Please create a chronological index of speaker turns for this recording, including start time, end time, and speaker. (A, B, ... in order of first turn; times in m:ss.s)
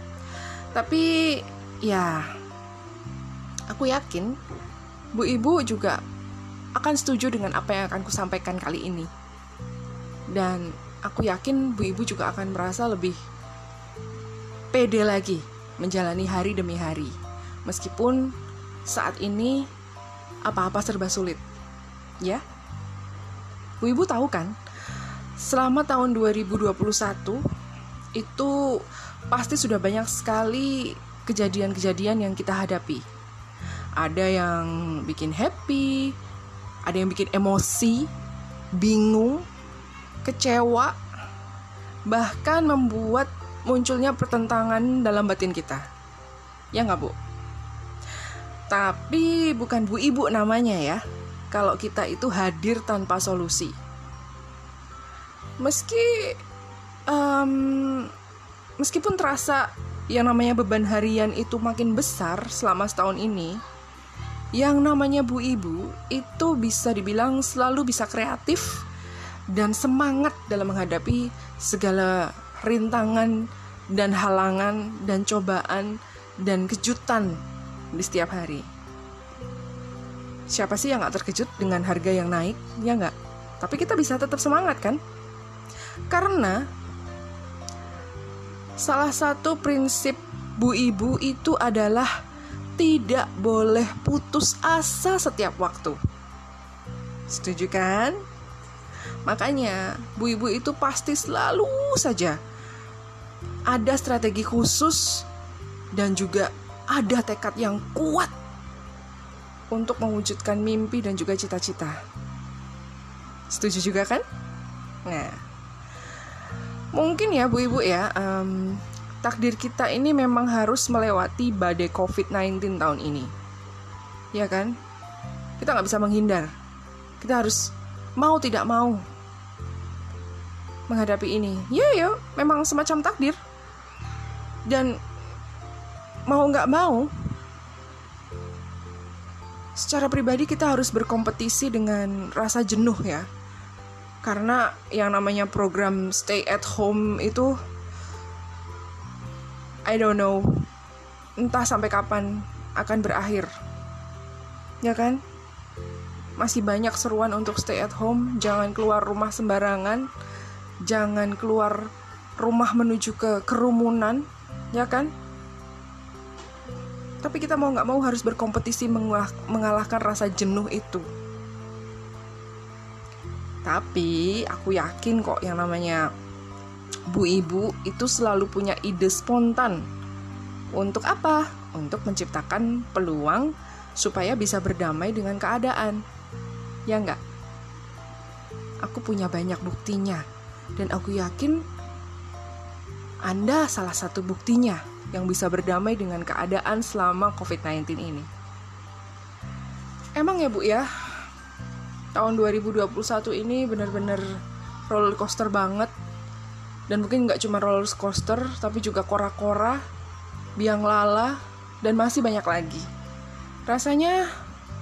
0:00.4-0:02.4 A
0:03.7-0:04.4 A
0:05.1-0:06.0 A
0:06.8-0:09.1 A
0:10.3-0:13.2 A
0:14.7-0:18.4 A
0:18.9-0:19.7 A
0:20.4-0:21.4 A
0:23.8-0:24.6 A
0:25.4-0:27.4 A
0:28.2-0:33.0 A
0:34.0-0:36.2 A
0:36.8-0:38.1 A
0:38.7-0:39.5 A
0:40.2-0:41.0 A
0:42.1-0:45.8 A
0:46.7-0:47.2 A
0:48.7-0:53.8 A
0:55.6-0:56.4 A
0:57.1-0:58.1 A
0:58.8-1:03.6 A
1:04.6-1:08.8 A
1:09.5-1:13.4 A
1:13.9-1:17.4 A
1:17.9-1:18.7 A
1:20.5-1:25.0 A
1:26.1-1:26.6 A
1:28.8-1:32.2 A
1:32.8-1:36.0 A
1:37.3-1:38.2 A
1:39.2-1:42.4 A
1:43.7-1:45.3 A
1:45.9-1:48.3 A
1:49.7-1:52.0 A
1:53.5-1:54.2 A
1:55.0-1:55.4 A
1:56.9-2:03.3 A
2:04.3-2:04.7 A
2:05.6-2:06.5 A
2:07.2-2:09.0 A
2:10.9-2:13.4 A
2:14.7-2:15.0 A
2:16.3-2:17.1 A
2:19.8-2:23.3 A
2:24.2-2:27.6 A
2:29.9-2:30.6 A
2:31.4-2:33.5 A
2:34.8-2:35.2 A
2:36.4-2:40.1 A
2:40.8-2:45.1 A
2:47.2-2:51.1 A
2:53.6-2:56.0 A
2:57.1-2:59.8 A
3:00.8-3:06.0 A
3:06.9-3:07.2 A
3:08.8-3:10.2 A
3:10.8-3:11.6 A
3:13.3-3:18.3 A
3:20.2-3:21.3 A
3:22.1-3:24.3 A
3:24.9-3:25.9 A
3:26.9-3:29.8 A
3:30.6-3:32.9 A
3:33.7-3:34.3 A